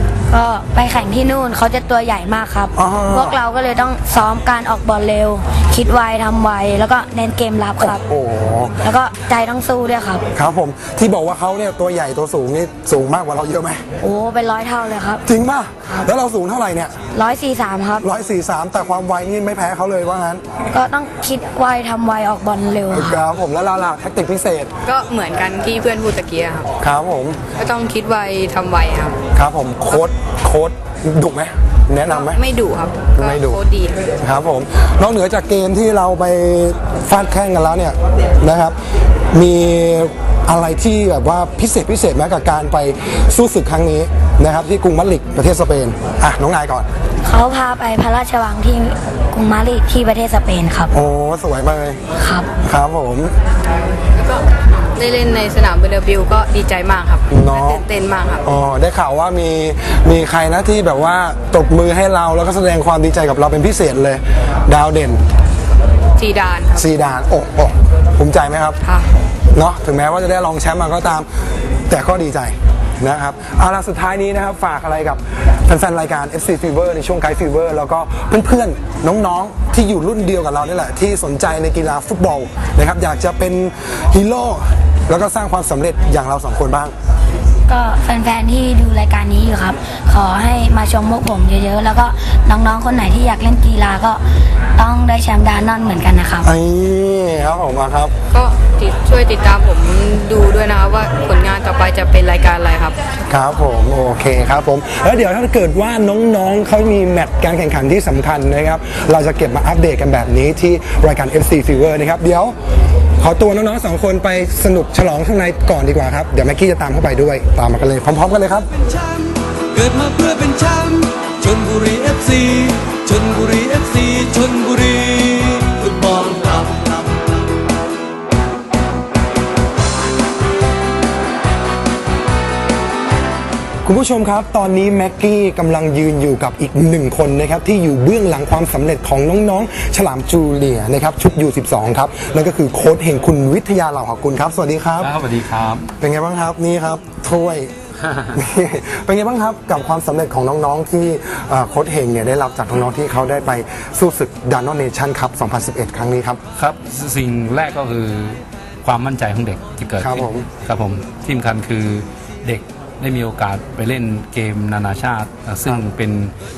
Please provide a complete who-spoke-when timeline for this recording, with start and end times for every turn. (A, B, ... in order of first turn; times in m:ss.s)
0:00.3-0:08.0 A
0:02.8-0:03.4 B
0:07.8-0:08.8 B
0:08.8-0:10.2 A
0:10.4-0:13.8 B
0:14.0-0:15.2 A
0:15.3-0:17.0 B
0:17.1-0:18.0 A
0:18.0-0:20.4 B
0:20.7-0:23.2 A
0:22.9-0:24.7 B
0:24.9-0:26.7 C
0:26.8-0:27.4 B
0:27.6-0:29.2 C
0:29.3-0:32.4 B
0:32.1-0:34.1 C
0:33.2-0:33.6 B
0:34.2-0:46.9 B
0:47.2-0:50.9 A
0:50.9-0:52.0 B
0:52.2-0:52.5 A
0:52.6-0:53.3 B
0:54.2-0:58.4 C
0:57.3-0:57.8 B
0:58.4-1:05.2 B
1:06.2-1:06.9 C
1:06.8-1:08.8 B
1:08.8-1:09.1 C
1:09.5-1:11.3 B
1:11.9-1:26.9 B
1:27.7-1:34.2 A
1:34.8-1:36.5 A
1:36.4-1:38.1 B
1:38.3-1:43.0 C
1:43.3-1:52.6 B
1:53.2-1:58.7 B
1:58.8-2:07.3 D
2:13.8-2:25.1 B
2:25.0-2:25.9 E
2:25.9-2:27.7 B
2:28.1-2:28.3 E
2:28.3-2:36.4 B
2:36.6-2:46.3 E
2:40.0-2:40.5 B